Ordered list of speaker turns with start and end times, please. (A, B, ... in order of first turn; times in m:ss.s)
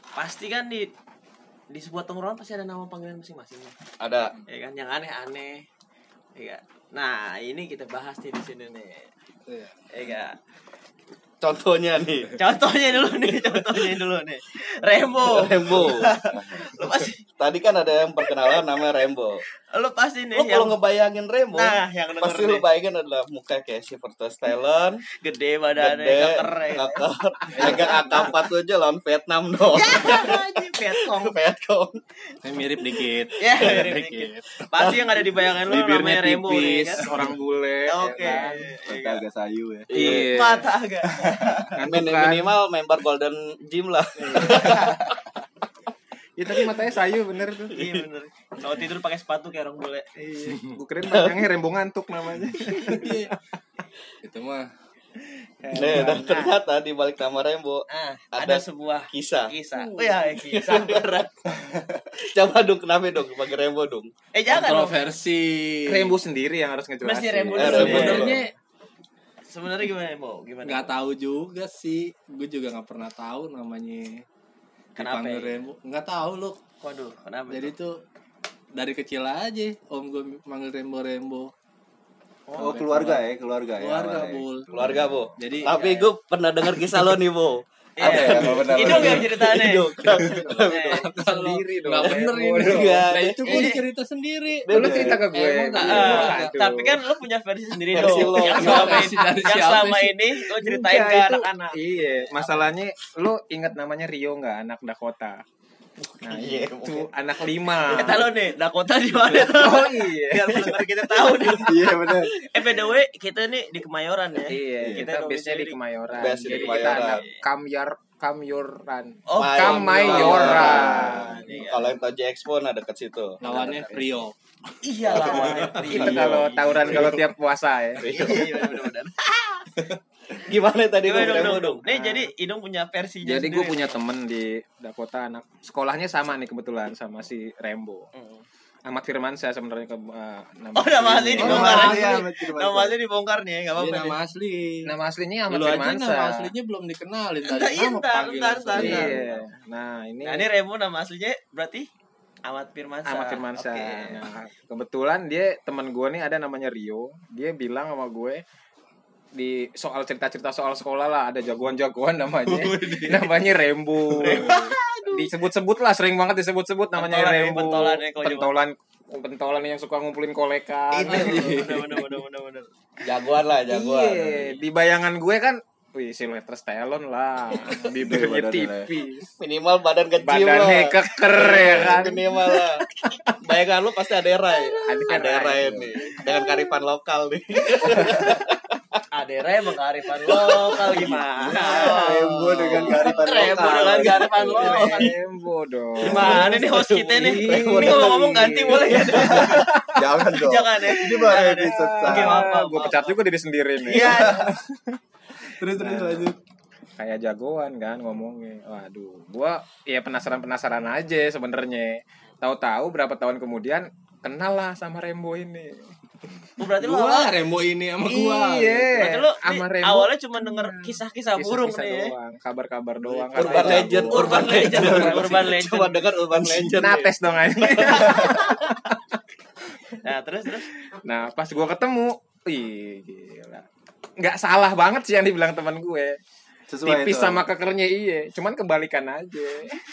0:00.2-0:00.9 A
0:01.7-0:03.8 A
0:04.0-0:04.3 B
0:04.5-0:05.7 A
0:06.4-0:09.1 A
0:09.5-0:09.7 C
0:09.9-0:10.4 A
0:11.4-0:12.4 B
0:12.4-0:17.3 A
0:15.2-0:16.6 B
0:17.4-0:19.4 B
0:18.2-0:18.6 A
0:19.7-0:20.8 A
0:20.4-0:25.0 B
0:21.5-0:22.6 A
0:25.2-0:28.4 A
0:25.8-0:32.0 B
0:27.6-0:27.8 C
0:29.7-0:31.4 A
0:32.4-0:34.5 C
0:33.4-0:37.1 A
0:34.8-0:35.0 B
0:35.6-0:38.7 D
0:36.5-0:37.3 C
0:37.9-0:39.2 A
0:38.9-0:39.9 E
0:39.9-0:40.4 B
0:39.9-0:40.7 D
0:39.9-0:41.7 A
0:41.1-0:41.6 E
0:41.7-0:42.5 D
0:41.8-0:45.1 B
0:44.2-0:45.0 D
0:46.4-0:47.8 D
0:47.7-0:50.6 A
0:50.5-0:53.4 D
0:51.0-0:51.5 B
0:52.7-0:53.3 C
0:54.2-0:54.7 C
0:55.6-0:56.6 D
0:55.7-0:59.5 B
0:57.9-1:01.3 A
0:59.8-1:00.3 C
1:00.4-1:01.1 B
1:01.5-1:01.9 E
1:02.3-1:04.1 B
1:04.3-1:05.0 A
1:04.5-1:06.2 C
1:05.9-1:08.4 D
1:07.0-1:08.3 A
1:07.6-1:08.4 B
1:07.6-1:08.5 C
1:09.5-1:11.0 A
1:10.6-1:14.2 C
1:15.0-1:15.7 A
1:15.0-1:16.6 C
1:16.8-1:17.8 A
1:17.5-1:18.0 C
1:18.7-1:21.5 C
1:22.5-1:22.8 A
1:22.6-1:23.2 C
1:22.6-1:25.1 E
1:23.8-1:25.8 C
1:24.7-1:31.1 B
1:25.6-1:26.1 A
1:28.0-1:31.1 A
1:28.0-1:29.3 E
1:30.9-1:36.5 C
1:31.2-1:33.0 D
1:32.6-1:33.7 B
1:33.4-1:33.8 A
1:34.7-1:35.2 B
1:34.7-1:37.0 D
1:34.7-1:35.2 E
1:35.8-1:42.6 A
1:37.9-1:39.0 B
1:37.9-1:40.2 C
1:39.1-1:39.7 D
1:40.6-1:45.4 D
1:46.1-1:47.1 B
1:46.2-1:48.3 D
1:47.8-1:57.4 A
1:49.4-1:50.7 D
1:50.5-1:52.8 B
1:51.7-1:52.3 E
1:54.5-2:01.7 D
1:54.8-1:55.1 E
1:56.1-1:57.2 B
1:59.3-2:02.0 A
1:59.4-2:03.4 B
2:00.4-2:01.4 E
2:03.4-2:04.3 C
2:03.4-2:04.3 A
2:04.8-2:06.5 A
2:05.1-2:07.3 B
2:05.2-2:08.5 D
2:05.5-2:05.9 C
2:08.0-2:09.6 B
2:08.1-2:08.9 A
2:10.4-2:11.8 B
2:11.0-2:14.0 A
2:11.9-2:12.3 D
2:13.2-2:18.1 D
2:18.1-2:18.4 A
2:18.9-2:22.0 D
2:20.8-2:24.2 A
2:21.4-2:23.0 E
2:23.8-2:24.9 C
2:24.9-2:26.5 D
2:25.5-2:29.3 C
2:27.4-2:29.4 A
2:28.7-2:30.5 D
2:30.2-2:31.9 A
2:32.4-2:34.2 A
2:33.1-2:38.4 D
2:39.4-2:44.5 D
2:42.5-2:43.3 B
2:44.1-2:44.8 B
2:44.3-2:44.7 C
2:44.4-2:45.3 A
2:45.1-2:51.7 D
2:46.9-2:48.6 A
2:50.9-2:52.7 A
2:51.1-2:52.1 C
2:53.0-2:54.6 B
2:53.7-2:59.3 D
2:57.8-2:58.9 E
2:59.4-3:02.8 B
3:00.2-3:03.3 D
3:03.4-3:08.6 B
3:04.8-3:06.4 D
3:05.6-3:05.9 E
3:09.1-3:15.1 A
3:10.4-3:11.1 B
3:11.4-3:14.6 E
3:11.6-3:20.0 D
3:14.6-3:15.1 B
3:16.0-3:18.2 B
3:16.0-3:19.7 A
3:19.1-3:22.6 E
3:20.3-3:23.2 A
3:21.2-3:25.0 D
3:23.8-3:24.5 A
3:23.9-3:24.6 E
3:25.6-3:26.4 E
3:25.8-3:26.3 D
3:27.0-3:35.9 D
3:36.6-3:37.4 A
3:36.8-3:39.0 C
3:38.1-3:45.3 D
3:38.9-3:42.1 A
3:43.4-3:48.5 B
3:43.4-3:45.2 E
3:44.1-3:46.0 A
3:46.4-3:46.8 E
3:46.7-3:49.0 D
3:50.0-3:50.7 A
3:51.0-3:53.6 D
3:54.2-3:56.2 D
3:56.7-3:57.5 E
3:56.8-3:59.8 D